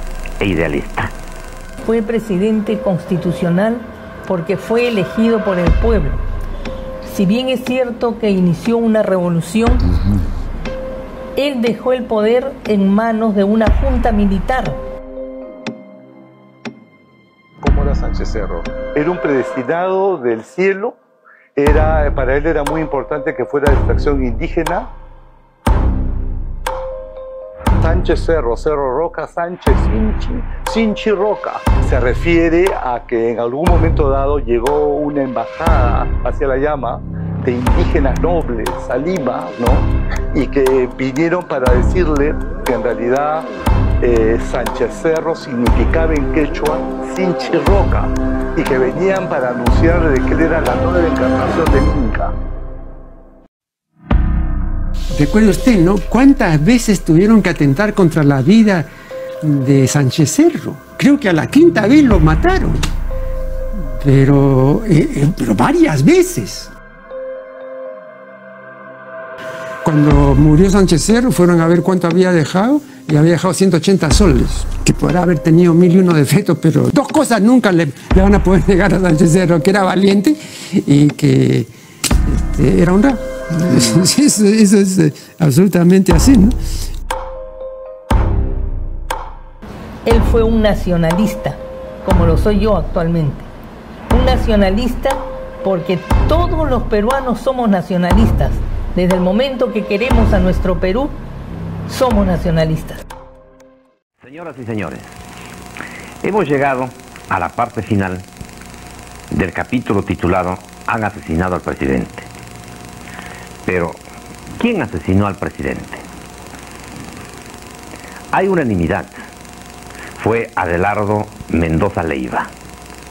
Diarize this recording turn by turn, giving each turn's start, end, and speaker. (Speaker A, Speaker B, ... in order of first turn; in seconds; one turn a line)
Speaker A: 0.4-1.1
Speaker B: 1.8-6.2
Speaker B: 7.0-9.8
Speaker B: 11.4-14.8
Speaker C: 17.6-21.0
Speaker C: 21.6-24.9
Speaker C: 27.8-43.5
Speaker C: 44.0-52.3
Speaker D: 55.1-58.9
Speaker D: 59.4-62.9
Speaker D: 64.0-66.7
Speaker D: 69.8-81.7
Speaker D: 82.3-86.6
Speaker B: 90.0-93.5
Speaker B: 94.1-101.2
Speaker B: 101.9-103.0
Speaker A: 104.2-105.1
Speaker A: 106.2-108.3
Speaker A: 109.3-112.3
Speaker A: 113.7-114.0
Speaker A: 114.6-116.0
Speaker A: 118.3-119.2
Speaker A: 120.2-122.5